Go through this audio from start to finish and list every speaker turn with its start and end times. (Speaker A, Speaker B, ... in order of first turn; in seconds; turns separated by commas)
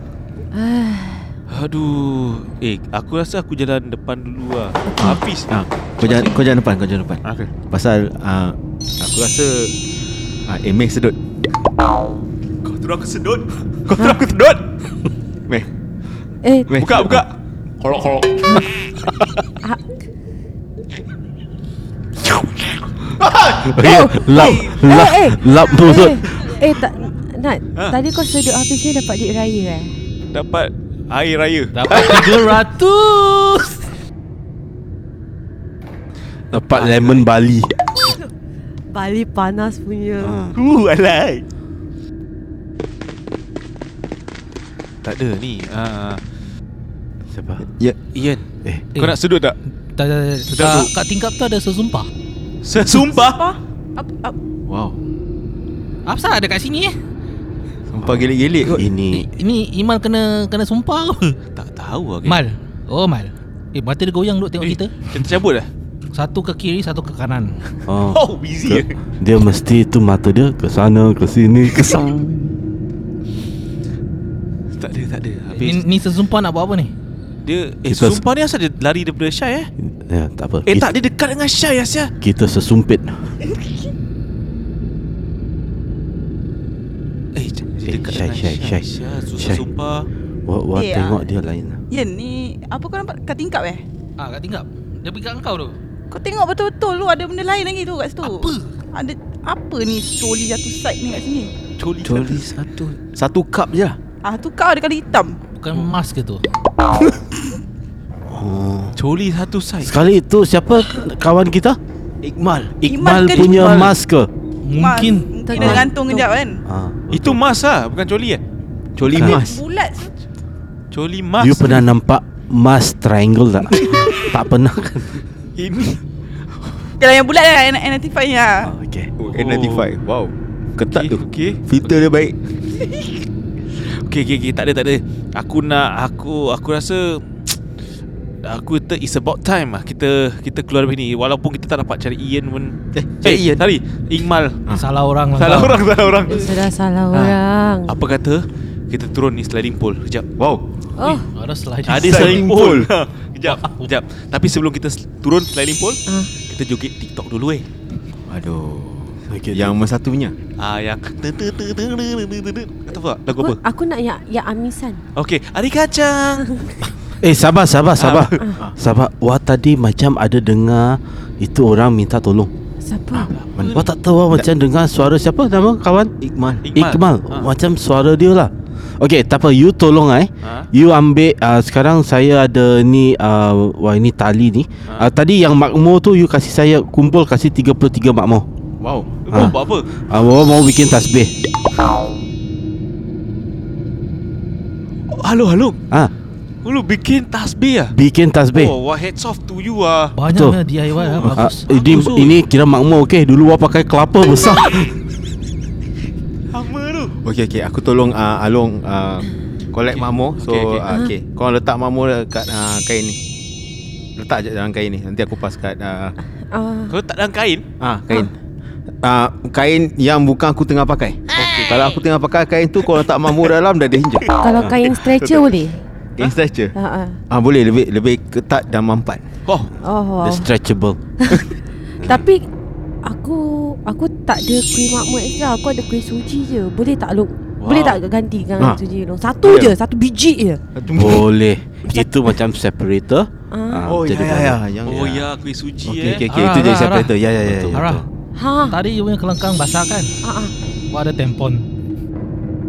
Speaker A: 0.5-1.3, Speaker B: 1.5-5.5, Speaker C: 5.0-9.8, Speaker B: 6.0-6.4, Speaker B: 7.2-7.5, Speaker C: 10.4-11.2, Speaker B: 12.6-14.6, Speaker A: 16.4-16.7, Speaker C: 16.7-17.2, Speaker B: 16.8-18.8, Speaker C: 23.2-23.6, Speaker D: 23.6-26.4, Speaker B: 23.6-24.7, Speaker A: 23.8-29.9, Speaker B: 30.3-32.4, Speaker E: 31.7-33.8, Speaker B: 36.5-37.3, Speaker D: 36.5-37.7, Speaker A: 38.9-40.4, Speaker D: 40.2-40.5, Speaker B: 40.5-41.4, Speaker B: 45.0-46.2, Speaker D: 47.3-47.6, Speaker B: 48.1-48.5, Speaker B: 49.0-49.6, Speaker E: 49.9-52.1, Speaker B: 50.5-50.9, Speaker B: 52.6-53.4, Speaker F: 53.1-54.4, Speaker C: 54.7-55.0, Speaker E: 56.0-56.9, Speaker C: 57.9-58.9, Speaker D: 58.7-59.3, Speaker E: 59.1-61.4, Speaker B: 61.5-62.4, Speaker E: 62.2-65.0, Speaker B: 64.6-65.7, Speaker E: 66.1-67.6, Speaker D: 67.9-72.1, Speaker B: 68.1-69.0, Speaker B: 74.8-75.8, Speaker E: 75.5-76.9, Speaker B: 77.4-79.7, Speaker D: 77.9-78.2, Speaker D: 79.8-80.9, Speaker B: 80.7-82.1, Speaker D: 82.2-83.3, Speaker B: 87.3-90.1, Speaker D: 87.8-88.8, Speaker D: 89.4-89.6, Speaker D: 90.5-91.8, Speaker F: 90.7-91.2, Speaker F: 91.9-93.8, Speaker E: 94.2-95.8, Speaker F: 96.1-101.5, Speaker E: 98.2-98.7, Speaker B: 101.8-102.5, Speaker C: 102.0-104.0, Speaker F: 104.2-105.4, Speaker E: 105.5-106.4, Speaker D: 108.3-109.0, Speaker B: 109.0-109.9, Speaker D: 109.8-111.8, Speaker C: 112.2-112.8, Speaker D: 112.8-114.3, Speaker F: 112.8-114.0, Speaker E: 114.6-115.2, Speaker F: 114.7-116.6, Speaker A: 115.5-116.2, Speaker D: 115.6-115.9, Speaker D: 116.7-117.4, Speaker B: 117.1-118.4, Speaker C: 119.0-119.6, Speaker F: 119.1-120.1, Speaker B: 120.9-121.9, Speaker D: 121.4-125.2, Speaker B: 125.6-126.0, Speaker F: 127.0-128.7, Speaker D: 128.7-129.1, Speaker C: 129.2-132.3, Speaker B: 129.3-129.9, Speaker B: 130.9-131.6, Speaker B: 133.8-137.6, Speaker B: 138.4-144.6, Speaker C: 142.9-143.6, Speaker E: 144.7-145.8, Speaker B: 145.4-147.3, Speaker A: 146.3-148.0, Speaker B: 147.9-150.2, Speaker C: 150.4-150.6, Speaker A: 151.0-151.2, Speaker E: 151.0-152.4, Speaker B: 151.9-157.7, Speaker C: 152.0-152.9, Speaker E: 153.4-153.9, Speaker C: 158.3-160.3, Speaker D: 159.3-159.7, Speaker B: 160.6-163.6, Speaker A: 163.3-165.0, Speaker B: 165.2-166.9, Speaker D: 167.2-172.5, Speaker B: 168.0-168.4, Speaker A: 172.8-173.3, Speaker B: 173.3-173.8, Speaker C: 173.6-174.5, Speaker D: 173.7-176.1, Speaker C: 176.2-176.6, Speaker B: 176.6-177.5, Speaker D: 176.7-188.4, Speaker C: 188.8-189.1, Speaker B: 189.2-189.9, Speaker D: 189.3-191.3, Speaker B: 195.1-195.8, Speaker B: 196.6-197.9, Speaker D: 197.9-198.8, Speaker B: 198.5-200.1, Speaker E: 200.2-201.7, Speaker D: 200.3-200.6, Speaker D: 201.2-204.9, Speaker B: 201.2-202.4, Speaker B: 206.5-207.1, Speaker C: 207.2-213.2, Speaker B: 209.9-210.8, Speaker C: 214.2-216.2, Speaker A: 216.5-216.9, Speaker B: 216.9-217.6, Speaker C: 217.8-218.3, Speaker C: 219.0-224.3, Speaker B: 221.3-222.0, Speaker B: 224.2-225.4, Speaker A: 224.4-225.8, Speaker C: 226.2-226.7, Speaker A: 226.7-227.2, Speaker C: 227.3-229.2, Speaker B: 229.4-229.7, Speaker A: 229.8-230.5, Speaker D: 230.2-231.0, Speaker A: 231.2-231.5, Speaker A: 232.0-232.4, Speaker A: 233.0-240.6, Speaker B: 237.6-238.0, Speaker C: 239.4-239.7, Speaker C: 240.8-241.3, Speaker D: 240.9-244.6, Speaker A: 241.9-242.4, Speaker A: 243.5-243.9, Speaker C: 243.8-245.3, Speaker B: 244.8-246.5, Speaker D: 246.0-246.7, Speaker C: 246.0-247.7, Speaker E: 246.0-247.1, Speaker D: 247.2-248.0, Speaker E: 247.7-248.0, Speaker A: 248.3-248.8, Speaker E: 248.7-250.1, Speaker A: 250.2-250.5, Speaker E: 250.9-251.6